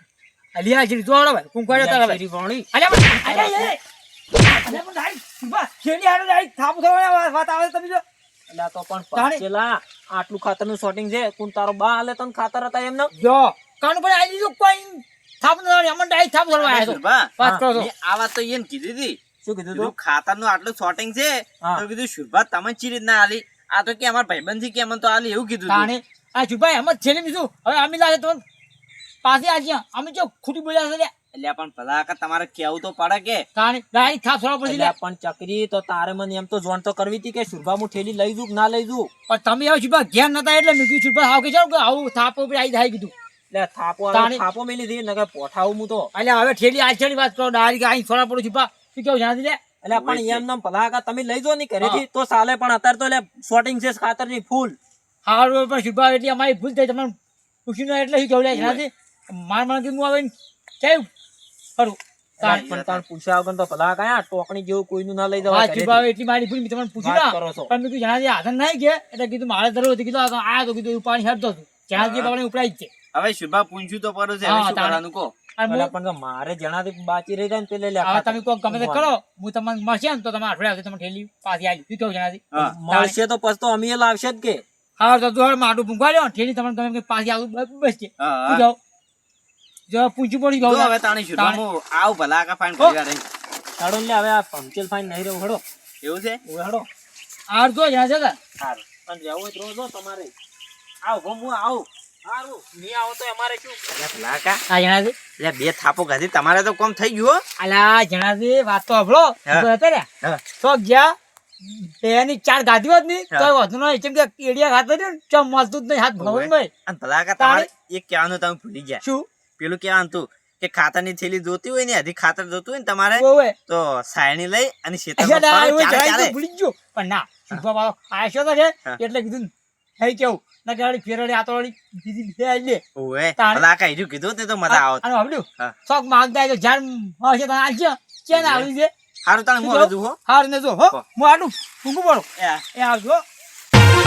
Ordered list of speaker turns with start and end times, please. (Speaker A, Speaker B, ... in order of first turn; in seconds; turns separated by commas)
Speaker A: 0.6-2.2, Speaker B: 1.7-3.8, Speaker A: 2.7-3.8, Speaker A: 4.4-8.0, Speaker B: 8.5-13.1, Speaker A: 9.2-9.4, Speaker A: 13.2-17.9, Speaker C: 16.6-19.2, Speaker B: 19.4-19.9, Speaker C: 19.7-25.9, Speaker A: 25.7-28.4, Speaker A: 29.2-31.1, Speaker C: 31.3-33.5, Speaker A: 33.6-34.9, Speaker B: 34.6-39.1, Speaker A: 39.3-43.1, Speaker B: 43.5-46.1, Speaker A: 44.1-44.4, Speaker A: 46.1-49.6, Speaker B: 49.8-54.8, Speaker C: 49.9-50.4, Speaker A: 55.3-57.1, Speaker A: 57.7-61.1, Speaker C: 58.5-58.8, Speaker A: 61.8-62.7, Speaker B: 62.4-66.1, Speaker C: 62.4-63.0, Speaker A: 65.5-72.9, Speaker B: 67.0-67.7, Speaker C: 72.0-72.3, Speaker C: 73.1-75.3, Speaker A: 74.5-75.0, Speaker A: 75.6-75.9, Speaker B: 75.7-79.1, Speaker A: 78.0-83.2, Speaker B: 82.5-84.6, Speaker A: 85.0-88.8, Speaker C: 88.2-88.7, Speaker A: 89.9-91.6, Speaker C: 90.6-93.2, Speaker B: 93.8-95.6, Speaker C: 96.0-96.4, Speaker B: 96.5-96.9, Speaker A: 97.5-98.4, Speaker B: 99.0-100.3, Speaker C: 101.0-101.9, Speaker B: 102.3-103.8, Speaker C: 103.9-104.6, Speaker A: 104.7-105.2, Speaker C: 105.4-107.4, Speaker A: 107.6-110.1, Speaker A: 110.6-116.7, Speaker C: 116.2-119.0, Speaker A: 117.4-117.7, Speaker C: 119.6-126.3, Speaker A: 123.2-123.5, Speaker A: 125.2-132.8, Speaker C: 133.0-135.1, Speaker A: 133.4-133.6, Speaker A: 134.7-138.9, Speaker C: 138.3-138.7, Speaker C: 139.2-140.2, Speaker A: 139.6-143.2, Speaker C: 142.4-142.6